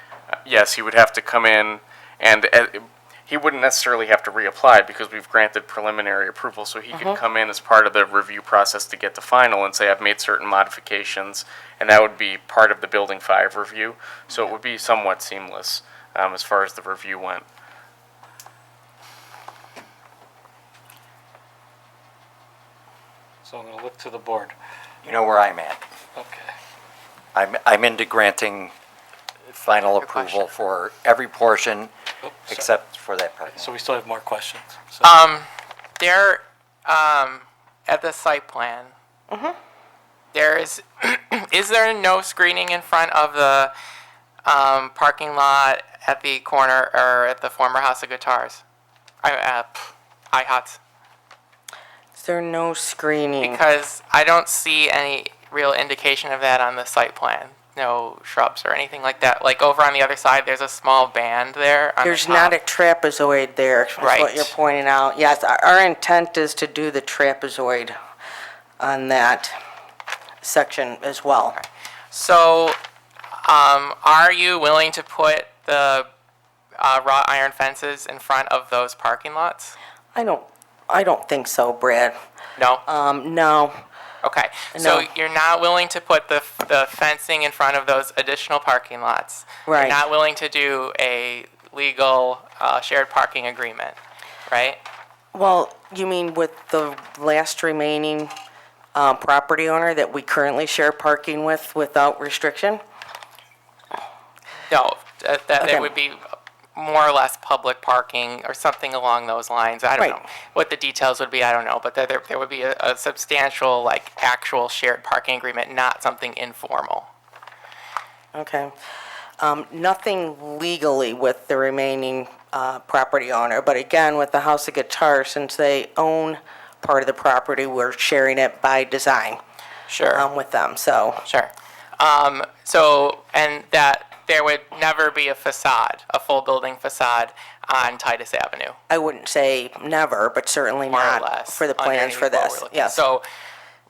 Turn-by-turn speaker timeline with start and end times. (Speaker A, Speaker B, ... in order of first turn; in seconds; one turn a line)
Speaker A: 0.5-17.5
Speaker B: 6.9-7.2
Speaker C: 23.4-24.6
Speaker D: 25.0-25.8
Speaker C: 26.1-26.5
Speaker D: 27.4-28.7
Speaker D: 29.5-31.9
Speaker E: 30.0-30.4
Speaker C: 32.2-32.7
Speaker D: 32.5-33.8
Speaker C: 33.5-35.2
Speaker E: 35.0-35.5
Speaker E: 36.0-38.9
Speaker E: 40.3-43.7
Speaker E: 44.5-48.6
Speaker E: 49.2-49.8
Speaker E: 50.3-50.8
Speaker B: 52.2-53.6
Speaker E: 53.4-62.5
Speaker B: 62.0-68.0
Speaker E: 64.0-64.5
Speaker B: 68.8-69.5
Speaker B: 70.4-71.6
Speaker E: 71.5-72.8
Speaker E: 73.4-76.1
Speaker E: 76.8-79.8
Speaker B: 80.1-82.2
Speaker E: 82.6-82.8
Speaker B: 82.9-83.8
Speaker E: 84.2-94.0
Speaker B: 84.8-85.1
Speaker B: 89.7-90.0
Speaker E: 94.5-94.8
Speaker B: 95.3-98.3
Speaker B: 99.0-102.8
Speaker E: 104.7-117.1
Speaker B: 105.6-105.9
Speaker B: 110.0-110.2
Speaker B: 118.3-118.7
Speaker B: 119.4-129.4
Speaker E: 129.9-130.3
Speaker B: 130.1-131.2
Speaker E: 131.2-138.8
Speaker B: 138.9-143.0
Speaker E: 140.9-143.2